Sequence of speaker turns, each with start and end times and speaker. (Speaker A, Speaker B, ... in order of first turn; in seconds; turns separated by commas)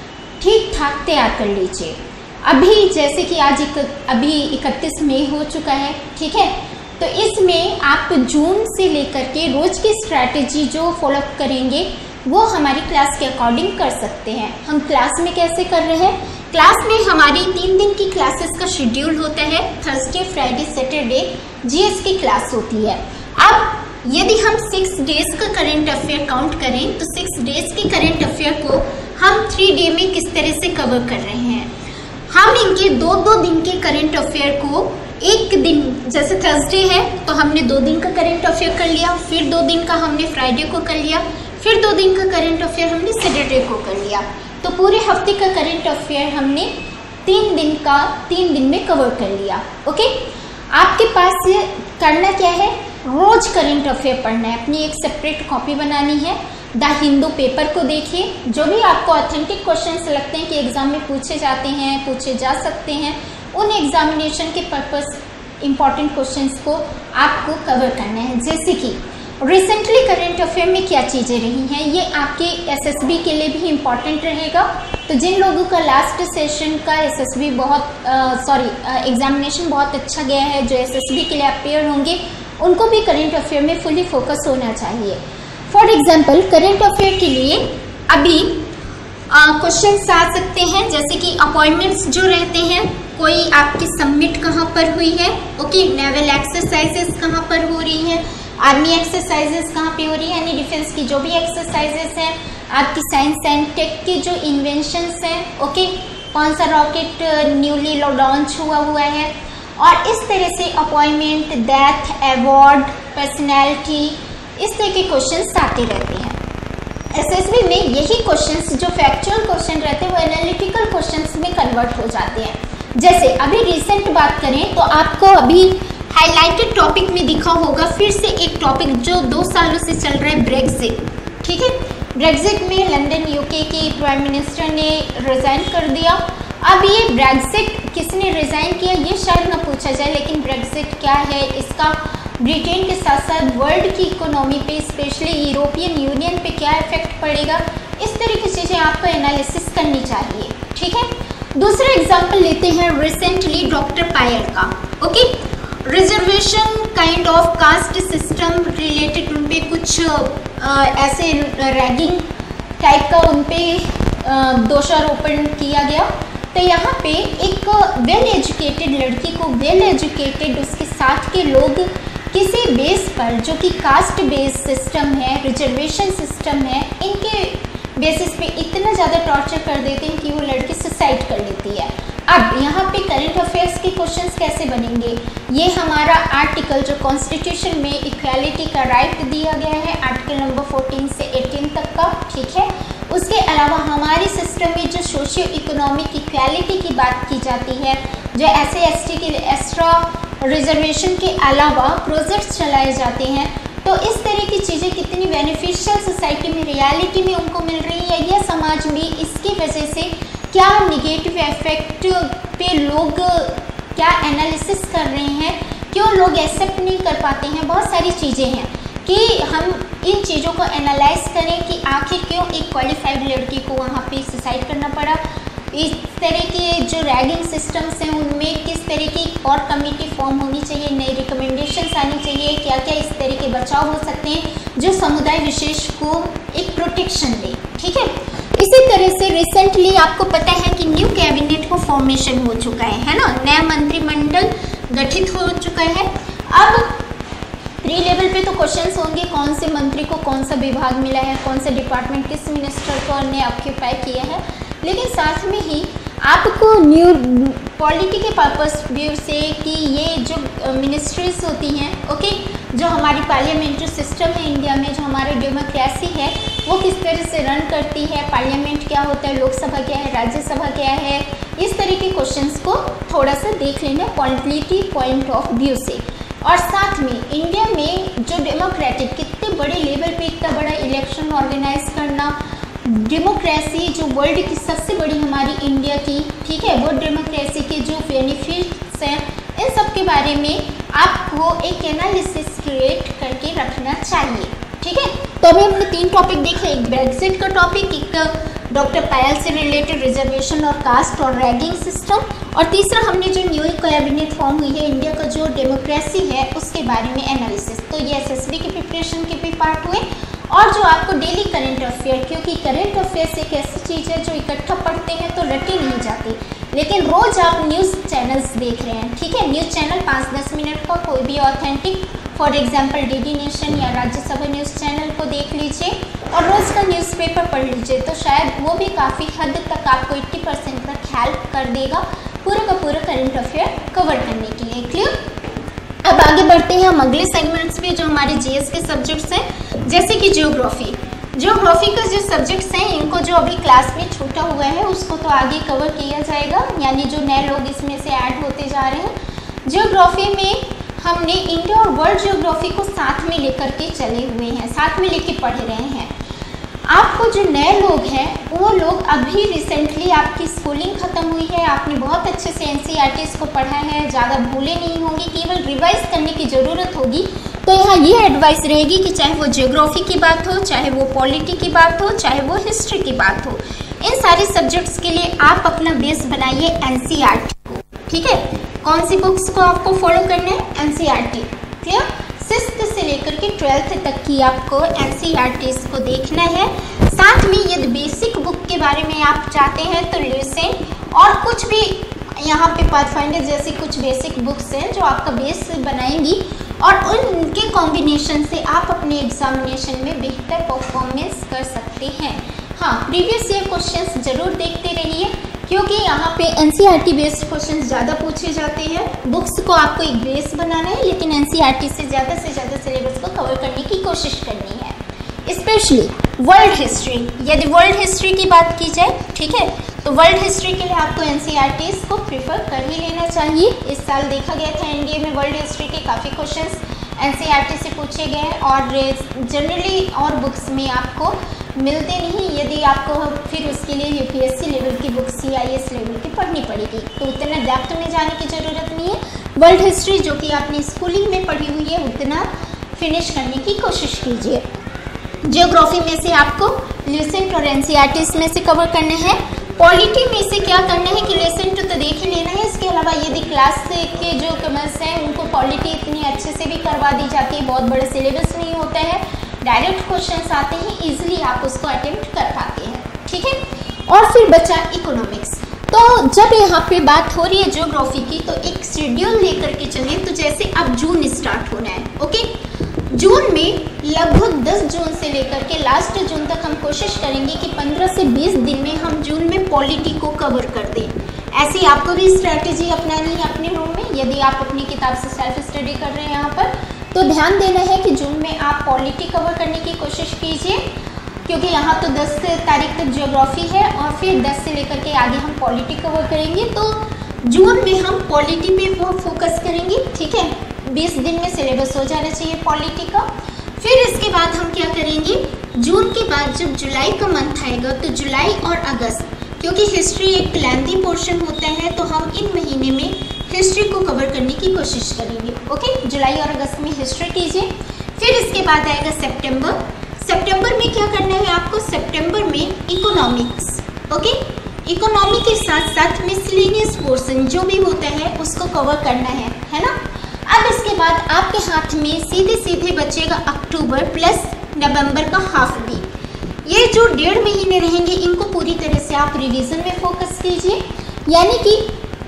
Speaker A: 0.4-31.7, Speaker A: 32.3-88.7, Speaker A: 89.3-116.4, Speaker A: 117.2-162.2, Speaker A: 162.8-225.2, Speaker A: 225.7-247.0, Speaker A: 247.8-335.1, Speaker A: 336.0-349.1, Speaker A: 349.7-356.1, Speaker A: 356.9-444.6, Speaker A: 445.5-472.6, Speaker A: 473.1-490.8, Speaker A: 491.5-503.3, Speaker A: 503.8-530.0, Speaker A: 530.5-536.0, Speaker A: 536.6-541.9